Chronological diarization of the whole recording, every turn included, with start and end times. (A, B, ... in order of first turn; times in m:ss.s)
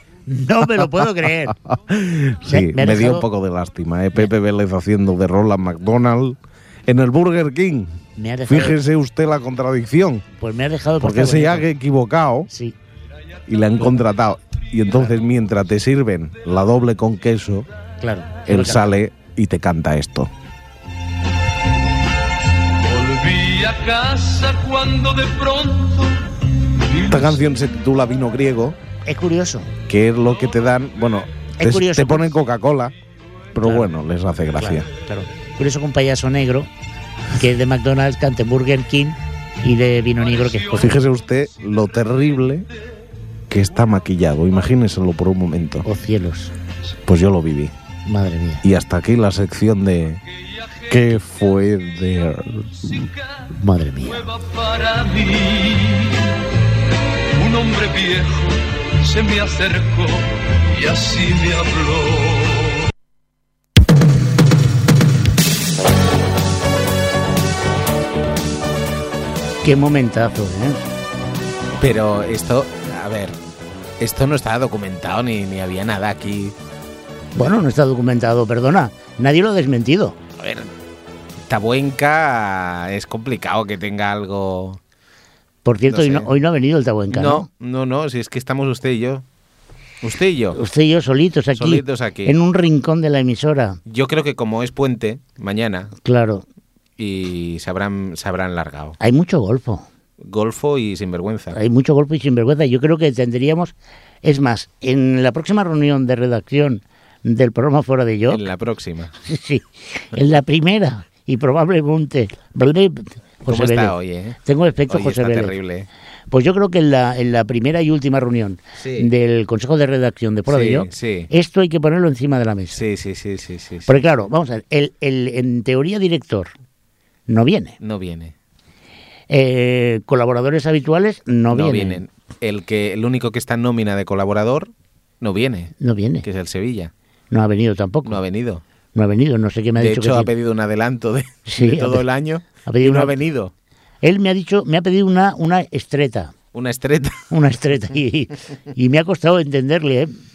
0:00.3-0:01.6 A
0:01.5-0:07.9 B
0:02.5-0:03.2 A
0:08.2-0:08.8 A
0:08.5-0:10.2 B
0:10.4-0:11.7 A
0:11.0-0:12.5 B
0:12.5-0:12.8 A
0:13.5-0:17.7 B
0:18.0-0:18.9 A
0:18.5-0:20.3 B
0:22.8-0:26.2 C
0:26.8-0:27.4 C
0:27.0-0:28.8 B
0:29.1-0:29.7 A
0:29.9-0:32.9 B
0:31.6-0:32.3 A
0:33.5-0:34.9 B
0:33.6-0:33.9 A
0:34.6-0:36.7 A
0:37.4-0:41.0 A
0:40.3-0:40.9 C
0:40.8-0:42.7 B
0:43.5-0:45.9 B
0:45.8-0:46.5 A
0:47.1-0:47.7 B
0:48.1-0:48.6 A
0:48.6-0:50.2 B
0:50.9-0:52.9 B
0:52.9-0:53.1 C
0:53.6-0:54.3 A
0:54.0-0:56.3 C
0:57.4-1:02.8 C
1:09.6-1:10.8 A
1:11.8-1:13.4 D
1:14.0-1:16.6 D
1:17.4-1:20.2 A
1:20.4-1:20.7 D
1:21.5-1:24.8 D
1:25.6-1:27.5 A
1:25.9-1:26.3 D
1:27.1-1:29.2 D
1:30.0-1:30.6 D
1:30.5-1:33.8 A
1:31.6-1:32.4 D
1:33.9-1:35.9 D
1:36.0-1:36.4 A
1:37.0-1:39.0 D
1:39.0-1:39.9 A
1:40.2-1:41.6 D
1:41.5-1:48.4 A
1:48.3-1:49.1 D
1:49.3-1:55.6 A
1:53.5-1:55.9 D
1:56.3-2:02.8 A
1:58.8-1:59.1 D
2:00.5-2:01.3 D
2:02.8-2:04.0 D
2:03.9-2:06.5 A
2:07.3-2:07.8 A
2:07.8-2:08.3 D
2:09.3-2:12.0 A
2:11.5-2:16.9 D
2:15.8-2:16.2 A
2:17.3-2:18.2 A
2:18.0-2:18.6 D
2:18.9-2:20.3 A
2:19.8-2:23.5 D
2:21.5-2:22.0 A
2:22.7-2:23.2 A
2:24.0-2:26.3 A
2:26.5-2:27.2 D
2:27.3-2:30.1 A